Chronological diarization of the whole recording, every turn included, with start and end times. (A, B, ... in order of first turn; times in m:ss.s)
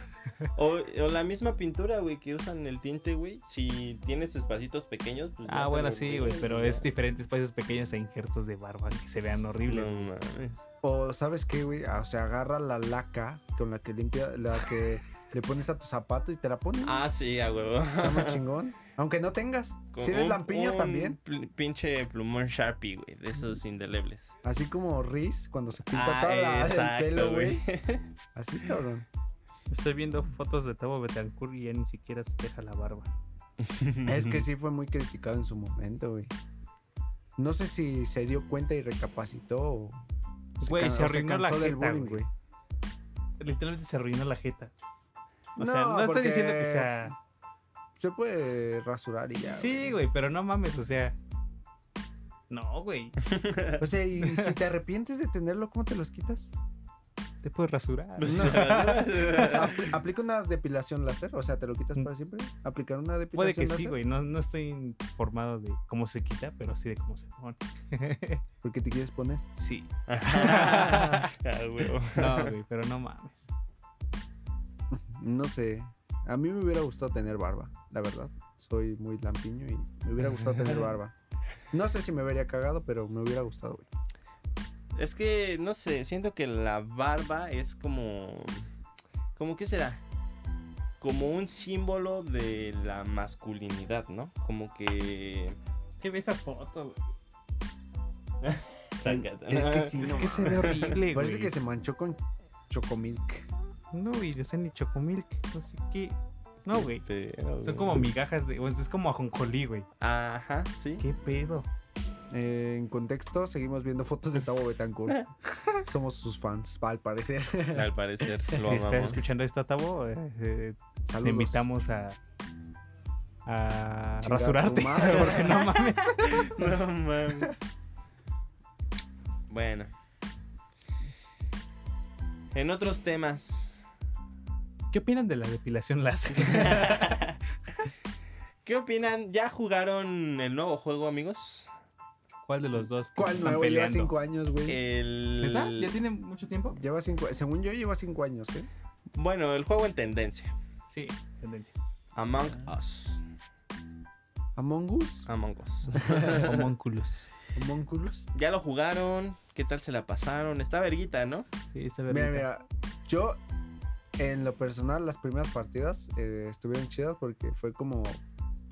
0:00.5-0:06.9 A
0:05.4-0:10.1 B
0:09.6-0:10.6 A
0:10.8-0:17.0 C
0:16.8-0:18.4 A
0:18.0-0:21.2 C
0:19.9-0:24.4 A
0:24.4-0:27.6 C
0:25.9-0:28.1 A
0:28.3-0:29.0 C
0:29.7-0:33.1 B
0:33.6-0:34.4 A
0:34.0-0:36.3 C
0:37.4-0:40.0 C
0:40.6-0:42.3 C
0:40.6-0:42.2 B
0:43.4-0:44.7 B
0:45.6-0:47.1 B
0:45.6-0:47.1 C
0:48.0-0:50.0 C
0:49.5-0:51.1 B
0:52.5-0:53.2 B
0:53.2-0:53.8 A
0:53.8-0:56.5 C
0:54.2-0:54.5 B
0:57.4-0:59.9 B
0:58.2-0:59.9 A
0:58.2-0:58.7 C
0:59.4-1:04.0 C
1:03.3-1:08.4 B
1:08.6-1:09.4 C
1:09.6-1:11.3 B
1:10.1-1:12.5 A
1:12.1-1:13.5 B
1:14.9-1:21.1 C
1:21.7-1:23.9 C
1:24.9-1:28.7 A
1:29.4-1:30.0 A
1:31.0-1:35.6 A
1:35.9-1:37.0 B
1:38.4-1:40.9 A
1:39.0-1:43.5 C
1:40.0-1:41.5 B
1:43.9-1:47.0 B
1:46.7-1:48.1 A
1:47.6-1:49.9 B
1:50.0-1:51.0 A
1:51.0-1:51.7 B
1:52.3-1:55.3 C
1:55.8-1:57.9 C
1:57.7-1:59.3 A
1:58.6-2:02.2 B
2:01.0-2:01.6 C
2:03.4-2:06.6 B
2:04.2-2:05.7 C
2:05.2-2:05.5 A
2:06.2-2:07.6 A
2:09.5-2:09.9 A
2:12.5-2:13.8 A
2:14.9-2:17.2 B
2:16.4-2:17.4 A
2:18.6-2:21.7 A
2:22.4-2:24.1 B
2:23.2-2:24.8 C
2:24.6-2:25.9 A
2:25.4-2:26.8 B
2:26.7-2:28.7 C
2:29.1-2:30.5 A
2:30.9-2:31.7 B
2:32.2-2:33.2 A
2:34.6-2:35.3 C
2:35.3-2:36.7 A
2:36.0-2:36.4 C
2:36.0-2:37.3 B
2:37.5-2:38.3 C
2:38.3-2:41.5 A
2:41.7-2:42.5 B
2:42.1-2:43.4 C
2:44.2-2:48.2 C